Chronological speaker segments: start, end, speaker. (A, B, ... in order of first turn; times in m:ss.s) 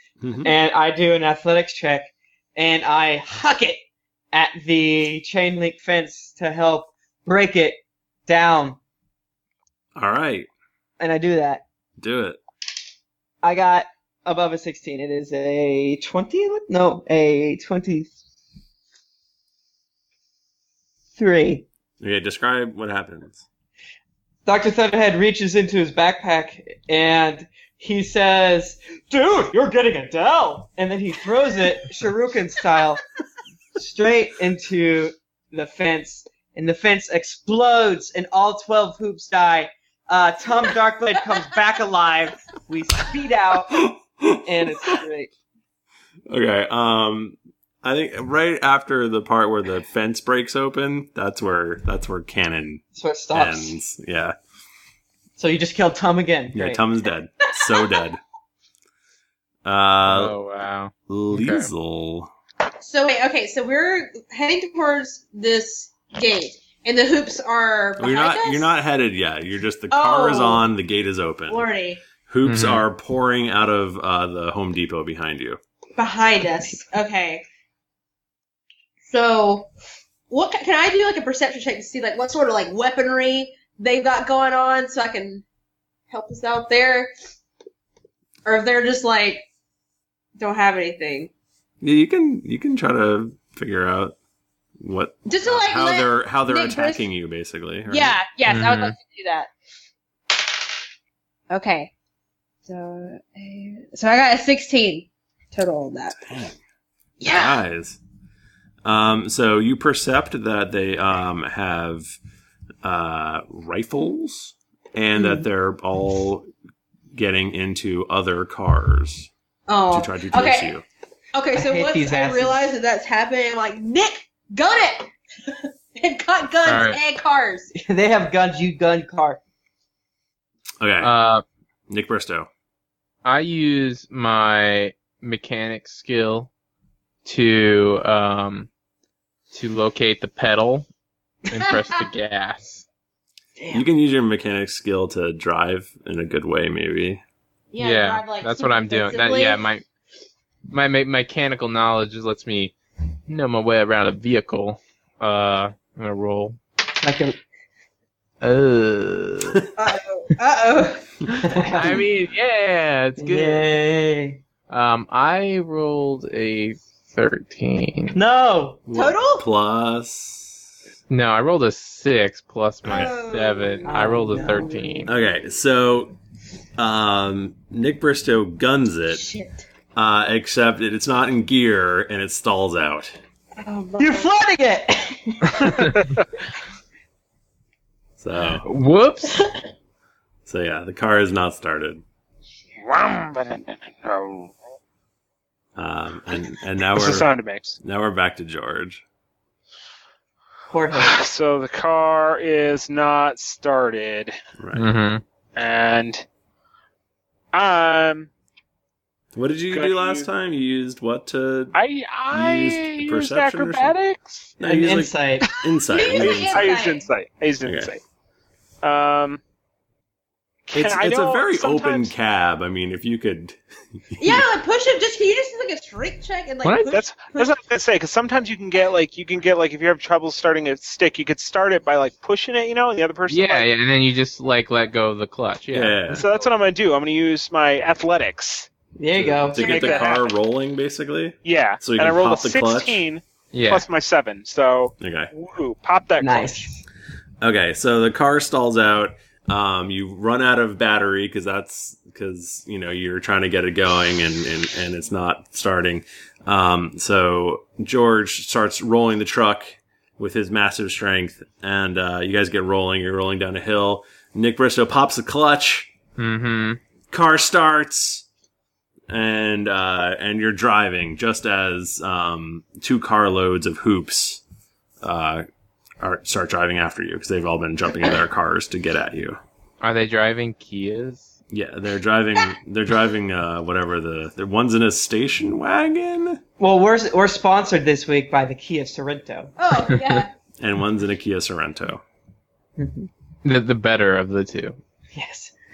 0:00.2-0:00.5 A
0:00.4-0:08.8 B
0:10.0-0:10.5 A
0:11.0-0:11.6 B
0:12.0-0:12.4 A
0:13.4-0:18.2 B
0:21.2-0:21.7 B
0:22.0-0:23.4 A
0:24.5-0:33.0 B
0:33.8-0:45.3 B
0:43.8-0:45.0 A
0:46.3-0:54.4 A
0:53.0-0:53.8 B
0:55.4-0:56.8 B
0:56.5-0:58.2 A
0:57.6-0:58.0 C
0:59.6-1:00.4 A
1:00.0-1:01.7 D
1:01.1-1:02.3 A
1:02.8-1:08.7 C
1:08.0-1:11.7 A
1:09.9-1:10.7 C
1:11.5-1:12.0 C
1:12.2-1:15.6 A
1:12.4-1:12.8 D
1:16.0-1:17.4 C
1:19.0-1:19.7 C
1:20.3-1:25.4 C
1:26.1-1:27.1 C
1:28.4-1:29.5 C
1:30.4-1:31.3 C
1:31.8-1:34.2 A
1:34.8-1:38.2 A
1:35.3-1:37.1 C
1:37.9-1:39.5 C
1:38.5-1:39.0 D
1:41.5-1:41.9 C
1:42.7-1:46.4 C
1:46.2-1:46.6 A
1:47.2-1:47.6 C
1:47.2-1:48.0 A
1:48.8-1:52.2 A
1:52.8-1:56.5 A
1:55.2-1:55.4 B
1:57.1-1:59.3 A
1:59.7-2:00.7 C
1:59.9-2:00.8 A
2:01.3-2:07.7 C
2:01.5-2:02.7 B
2:06.6-2:07.0 D
2:07.7-2:09.4 B
2:10.8-2:11.2 A
2:11.0-2:11.4 D
2:11.9-2:12.5 A
2:13.2-2:16.5 D
2:17.2-2:18.7 D
2:19.5-2:20.9 D
2:21.5-2:22.8 D
2:23.6-2:23.8 B
2:23.7-2:27.2 A
2:27.7-2:29.6 C
2:27.8-2:29.8 D
2:30.7-2:32.7 D
2:33.3-2:36.6 D
2:37.0-2:37.4 B
2:38.4-2:39.7 D
2:39.8-2:41.4 C
2:41.3-2:42.0 B
2:41.7-2:43.7 D
2:43.2-2:44.4 B
2:44.7-2:48.2 D
2:48.1-2:48.8 B
2:48.9-2:50.6 A
2:48.9-2:49.4 C
2:51.1-2:55.1 D
2:52.9-2:54.0 C
2:53.8-2:54.8 B
2:55.1-2:56.2 A
2:56.8-2:59.2 A
2:59.1-2:59.7 C
3:00.0-3:03.2 A
3:03.6-3:04.3 C
3:04.0-3:06.0 B
3:08.2-3:08.7 A
3:08.6-3:09.4 D
3:10.5-3:12.0 A
3:12.8-3:14.5 E
3:15.8-3:17.3 A
3:16.9-3:17.8 E
3:17.8-3:19.0 A
3:20.7-3:21.2 B
3:20.9-3:24.4 E
3:24.6-3:24.9 A
3:24.8-3:25.2 D
3:25.6-3:26.2 E
3:27.5-3:28.3 E
3:29.3-3:31.8 A
3:29.7-3:30.3 E
3:31.7-3:34.5 E
3:32.3-3:34.0 A
3:34.6-3:36.8 A
3:34.6-3:35.5 B
3:35.8-3:37.1 C
3:36.1-3:38.0 E
3:37.6-3:37.9 A
3:38.8-3:39.4 E
3:40.7-3:42.1 E
3:40.7-3:44.5 A
3:44.2-3:47.5 C
3:46.6-3:47.0 D
3:46.9-3:53.7 E
3:53.3-3:56.1 D
3:55.7-3:56.3 A
3:56.1-3:58.7 E
3:59.0-3:59.7 B
3:59.1-4:03.0 A
3:59.6-4:00.2 E
3:59.6-4:00.2 C
4:01.4-4:06.7 E
4:03.5-4:03.8 D
4:05.0-4:05.3 A
4:06.2-4:06.8 B
4:07.4-4:25.9 A
4:26.2-4:26.8 D
4:27.1-4:28.2 A
4:29.1-4:34.4 A
4:35.0-4:35.5 A
4:36.0-4:39.4 A
4:39.8-4:41.3 D
4:41.5-4:46.4 A
4:46.6-4:49.5 B
4:49.6-4:50.3 C
4:50.6-4:52.0 A
4:52.8-4:53.1 B
4:53.4-4:54.8 D
4:55.1-4:55.5 B